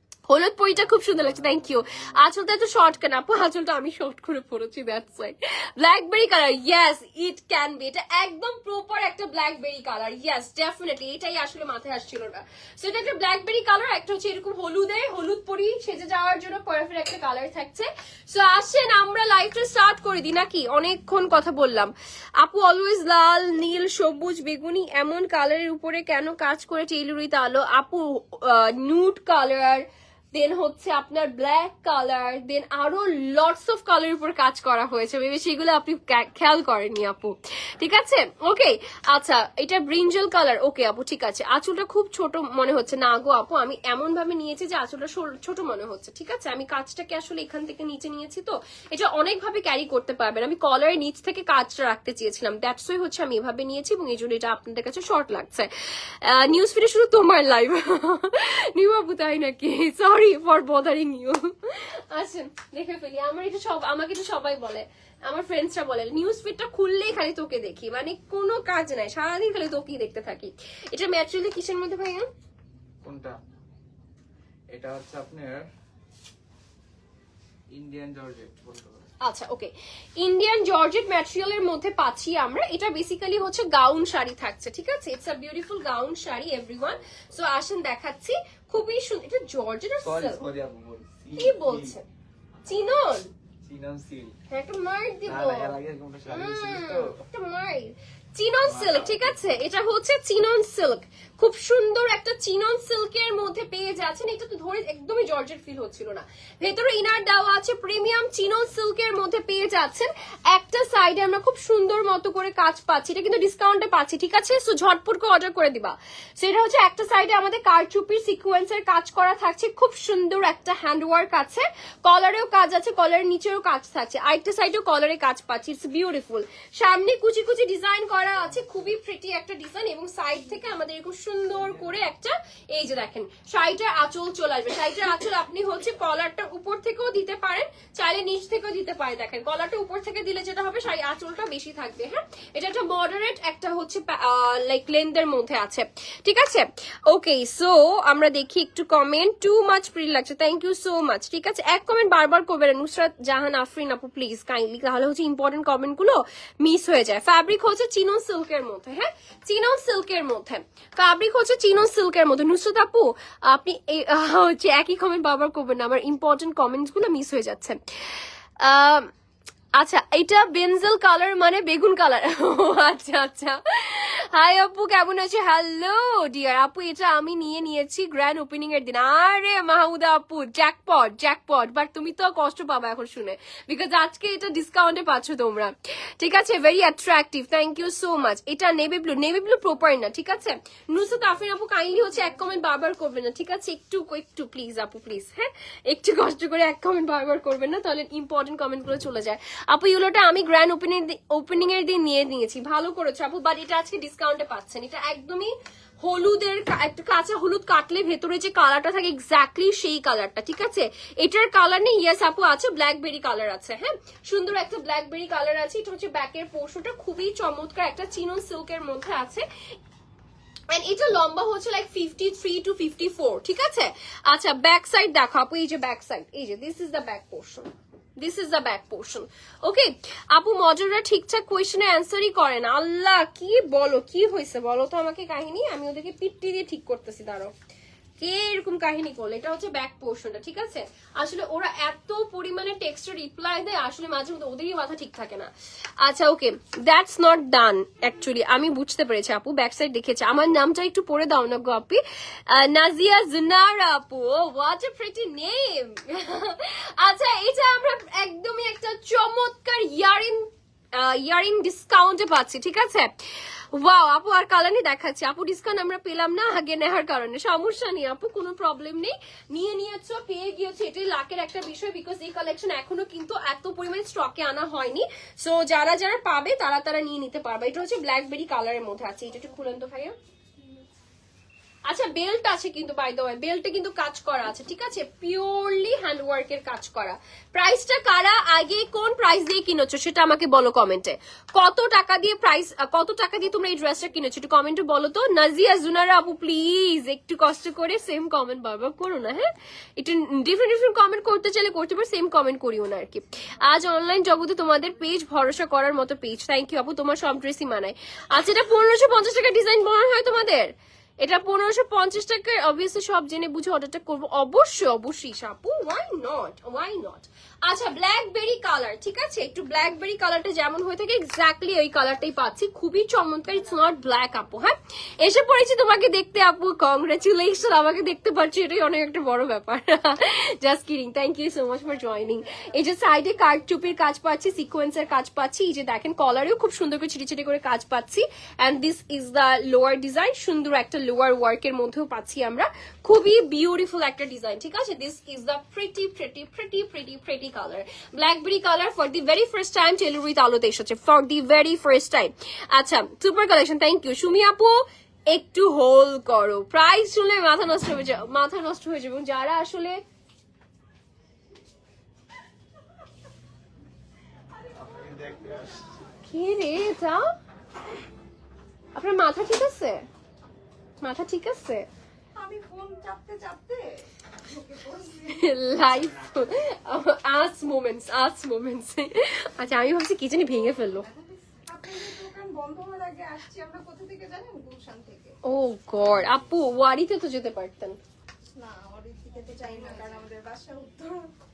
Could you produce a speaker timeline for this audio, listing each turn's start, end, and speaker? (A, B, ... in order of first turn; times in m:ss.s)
0:00.3-0:55.7 A
0:01.0-0:02.1 B
0:56.2-1:12.3 A
1:13.0-1:13.3 B
1:14.7-1:15.6 B
1:17.7-1:19.1 B
1:19.2-1:30.5 A
1:26.9-1:27.2 B
1:30.0-1:32.0 B
1:31.4-1:32.0 A
1:32.6-1:33.3 A
1:33.6-1:34.3 B
1:34.5-1:35.7 A
1:35.2-1:37.2 B
1:36.3-2:47.8 A
1:38.6-1:39.4 B
2:48.6-2:49.1 A
2:49.7-3:39.4 A
3:40.7-3:57.5 A
3:58.2-4:05.5 A
4:06.0-4:40.2 A
4:41.8-6:00.0 A
6:04.8-6:05.8 B
6:06.3-6:07.3 A
6:09.0-6:10.0 A
6:11.0-6:11.8 A
6:12.4-6:15.6 C
6:15.3-6:21.0 A
6:20.7-6:25.4 C
6:25.4-6:28.0 A
6:26.0-6:26.4 B
6:28.6-6:31.3 C